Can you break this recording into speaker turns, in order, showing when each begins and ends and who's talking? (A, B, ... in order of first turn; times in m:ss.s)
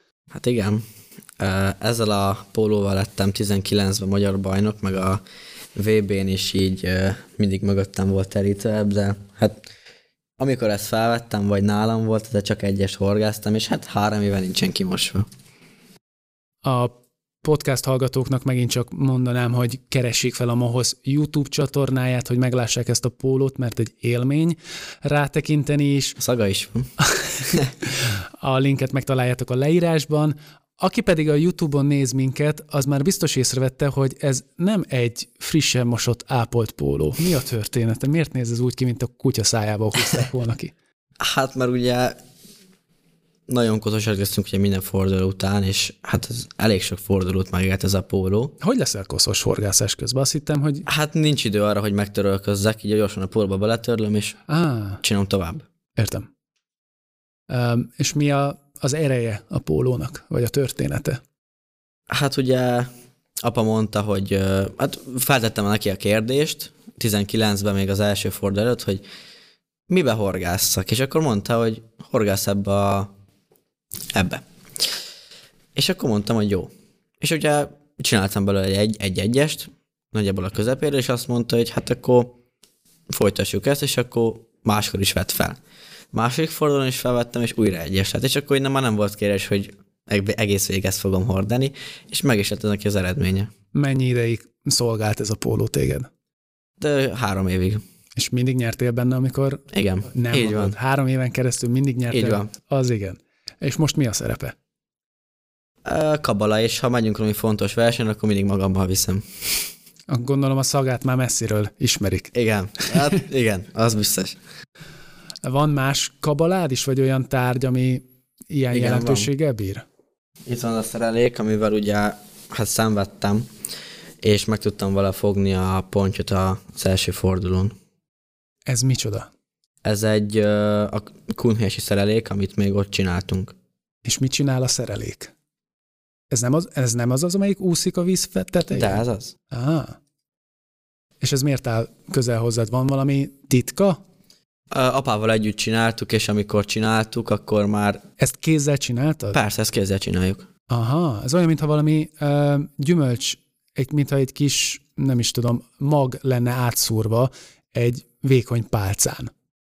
0:00.3-0:00.8 A
0:01.4-0:05.2 A
0:05.7-0:09.6 A
0:10.4-0:15.2 A
0:16.6-0:26.2 B
0:26.2-0:26.9 A
0:27.0-0:40.7 B
0:41.2-0:42.2 A
0:43.5-0:48.5 A
0:48.6-0:50.8 B
0:50.9-0:54.4 A
0:54.5-0:55.0 B
0:55.0-0:55.6 A
0:56.0-0:56.3 B
0:57.5-1:01.2 B
1:02.1-1:02.9 A
1:03.4-1:09.0 A
1:09.9-1:13.1 A
1:14.1-1:14.4 A
1:15.7-1:22.4 A
1:23.1-1:25.6 A
1:26.1-1:33.5 A
1:33.7-1:36.1 B
1:36.8-1:37.8 A
1:38.2-1:44.5 B
1:39.7-1:40.8 A
1:42.1-1:42.5 A
1:45.8-1:49.2 A
1:50.1-1:52.3 B
1:52.3-1:54.4 A
1:52.8-1:53.2 B
1:55.4-1:59.8 B
1:58.7-1:59.3 A
2:00.5-2:03.5 A
2:04.2-2:07.7 A
2:08.7-2:09.3 B
2:09.8-2:13.5 A
2:14.0-2:15.3 B
2:16.3-2:20.0 B
2:18.7-2:19.3 A
2:21.2-2:24.0 B
2:24.7-2:28.0 A
2:28.2-2:29.4 B
2:29.3-2:30.5 A
2:30.7-2:39.3 B